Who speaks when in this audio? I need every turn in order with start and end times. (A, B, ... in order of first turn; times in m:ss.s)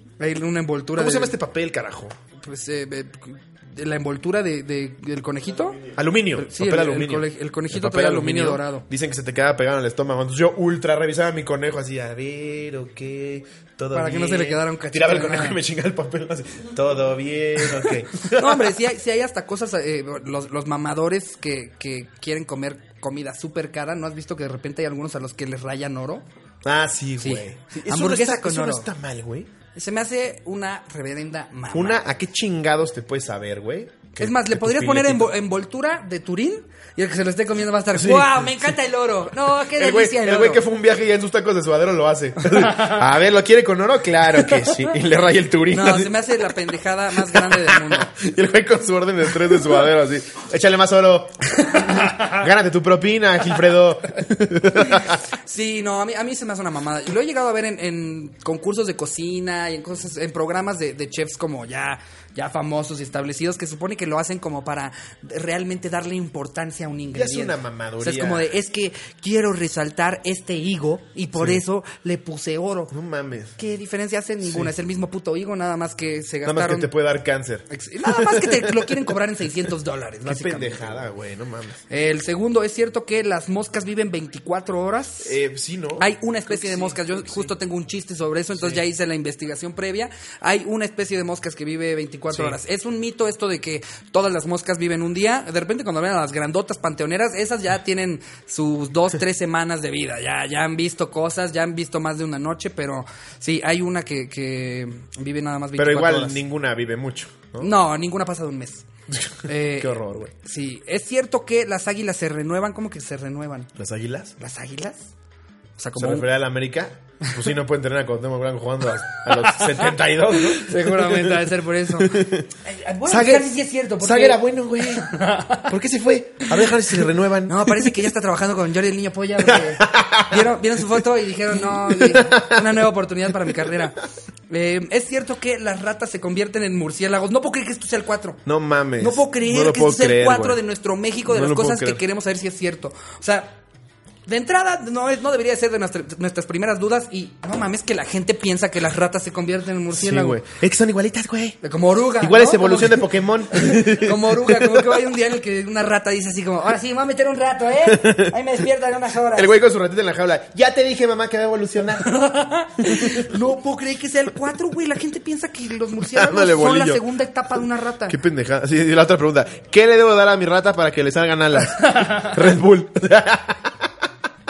0:00.2-0:01.3 A
0:01.0-0:02.2 B
0:02.4-0:08.8 A
0:05.9-0:18.8 B
0:13.9-0:15.6 A
0:18.2-0:26.2 A
0:26.6-0:29.5 B
0:27.2-0:28.9 A
0:29.7-0:32.0 A
0:31.7-0:35.3 B
0:34.2-0:40.6 A
0:37.9-0:38.7 B
0:39.5-0:46.6 B
0:42.4-0:43.0 A
0:44.5-0:44.8 A
0:45.7-0:48.1 A
0:47.1-0:55.2 B
0:51.6-0:52.4 A
0:54.8-1:12.9 A
1:07.1-1:08.5 B
1:11.3-1:11.6 B
1:12.9-1:13.6 B
1:13.6-1:16.9 A
1:14.4-1:14.7 B
1:16.4-1:19.0 B
1:17.7-1:21.0 A
1:20.2-1:21.8 B
1:21.9-1:25.4 A
1:25.2-1:27.5 B
1:26.0-1:46.4 A
1:28.6-1:28.8 B
1:32.3-1:32.6 B
1:45.8-1:47.7 B
1:47.6-1:48.8 A
1:49.1-1:50.3 B
1:49.4-1:53.7 A
1:53.8-1:54.4 B
1:54.4-1:55.1 A
1:55.8-1:56.3 A
1:55.9-2:02.5 B
1:59.3-2:05.7 A
2:03.0-2:08.1 B
2:07.5-2:14.0 A
2:09.4-2:12.7 B
2:14.5-2:18.4 A
2:18.4-2:20.6 B
2:19.0-2:23.6 A
2:21.2-2:22.0 B
2:24.3-2:30.4 A
2:29.9-2:31.6 B
2:31.6-2:39.5 A
2:32.2-2:35.0 B
2:37.8-2:38.4 B
2:39.3-2:42.2 B
2:42.0-2:48.2 A
2:42.8-2:43.3 B
2:46.0-2:47.0 B
2:48.1-2:53.9 B
2:51.8-2:52.4 A